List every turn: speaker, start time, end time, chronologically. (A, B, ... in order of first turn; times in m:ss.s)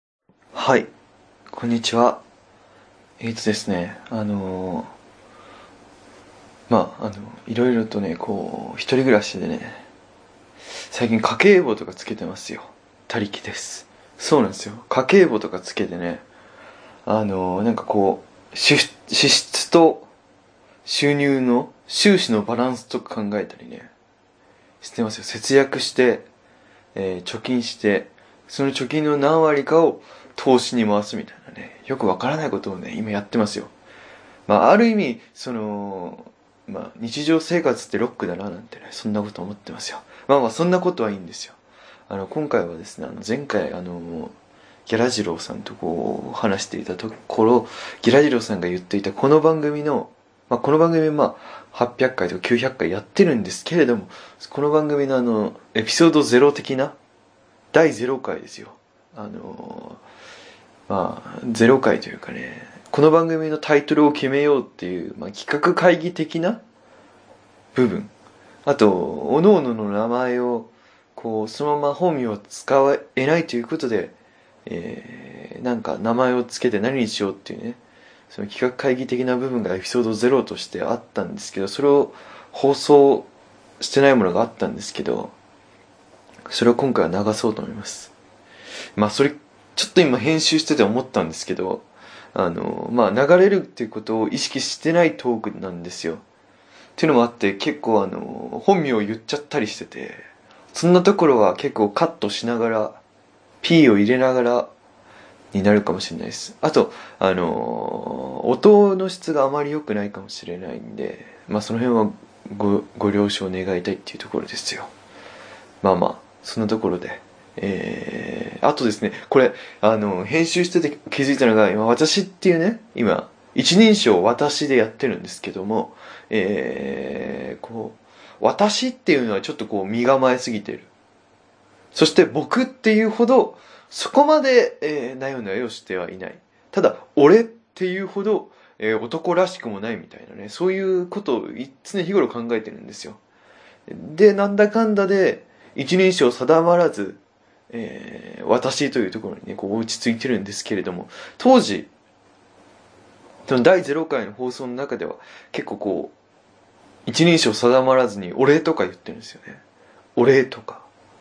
0:00.5-0:00.9 A
0:01.5-0:02.2 A
0:03.2-0:04.9 A
0:06.7-0:09.8 A
0:10.9-0:16.2 A
0:17.0-0:20.1 A
0:20.8-0:23.9 A
0:24.8-0:26.3 A
0:27.0-0:33.7 A
0:34.5-0:41.6 A
0:42.1-0:44.3 A
0:44.9-0:57.0 A
0:57.7-1:00.0 A
1:00.9-1:06.6 A
1:07.8-1:08.1 A
1:08.6-1:14.1 A
1:14.7-1:23.3 A
1:23.8-1:25.3 A
1:26.5-1:28.1 A
1:29.0-1:36.2 A
1:37.0-1:43.0 A
1:43.6-1:44.7 A
1:45.5-1:54.9 A
1:55.8-2:10.9 A
2:11.9-2:23.2 A
2:23.9-2:31.9 A
2:33.4-2:36.1 A
2:37.1-2:39.6 A
2:40.2-2:40.8 A